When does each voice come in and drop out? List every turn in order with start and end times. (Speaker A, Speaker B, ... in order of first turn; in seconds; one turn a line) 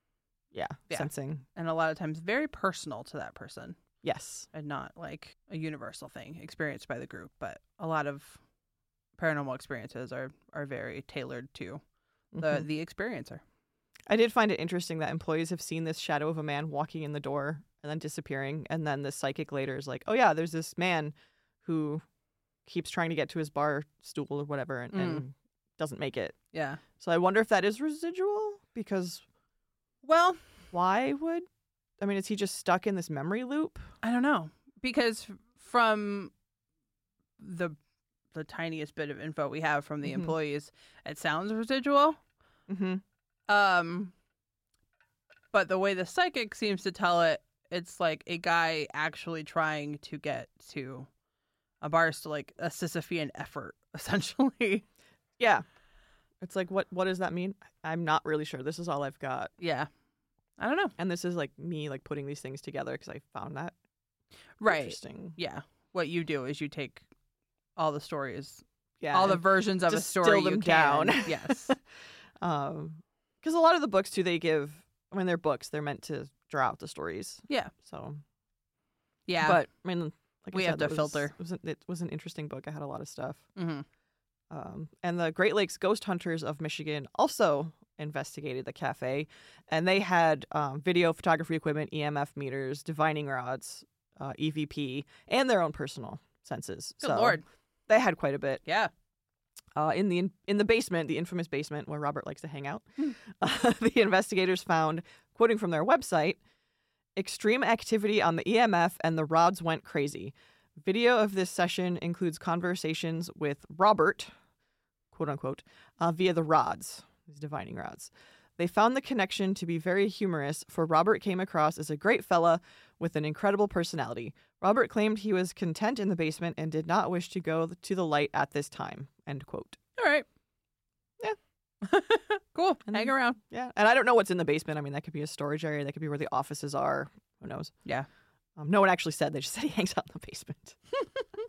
Speaker A: 0.5-1.4
Speaker B: 0.9-3.8
Speaker A: 4.0-4.5
Speaker B: 4.5-8.4
Speaker B: 9.2-11.8
Speaker A: 12.3-12.7
Speaker B: 12.4-13.4
Speaker A: 14.1-22.0
Speaker A: 22.6-26.4
Speaker B: 24.9-25.2
Speaker B: 26.5-26.8
Speaker A: 27.0-29.2
Speaker B: 30.0-30.4
Speaker A: 30.7-31.4
Speaker A: 32.0-33.9
Speaker B: 34.0-36.3
Speaker B: 37.4-37.8
Speaker B: 38.3-42.2
Speaker A: 40.0-40.3
Speaker A: 42.7-43.0
Speaker B: 43.5-44.1
Speaker B: 45.5-51.1
Speaker B: 51.8-54.8
Speaker A: 55.4-55.6
Speaker A: 56.4-59.5
Speaker B: 59.6-59.9
Speaker B: 60.6-60.9
Speaker A: 61.0-63.7
Speaker B: 64.6-67.0
Speaker A: 64.6-65.4
Speaker B: 67.8-71.7
Speaker A: 69.0-71.8
Speaker A: 72.4-78.2
Speaker B: 79.3-79.6
Speaker A: 79.4-83.5
Speaker B: 80.5-81.3
Speaker B: 83.5-83.8
Speaker A: 84.5-98.6
Speaker B: 97.0-97.4
Speaker B: 98.7-98.9
Speaker A: 99.8-106.4
Speaker A: 107.2-114.3
Speaker A: 115.1-129.8
Speaker B: 130.0-130.2
Speaker B: 131.8-133.4
Speaker A: 132.9-137.7
Speaker A: 138.6-140.8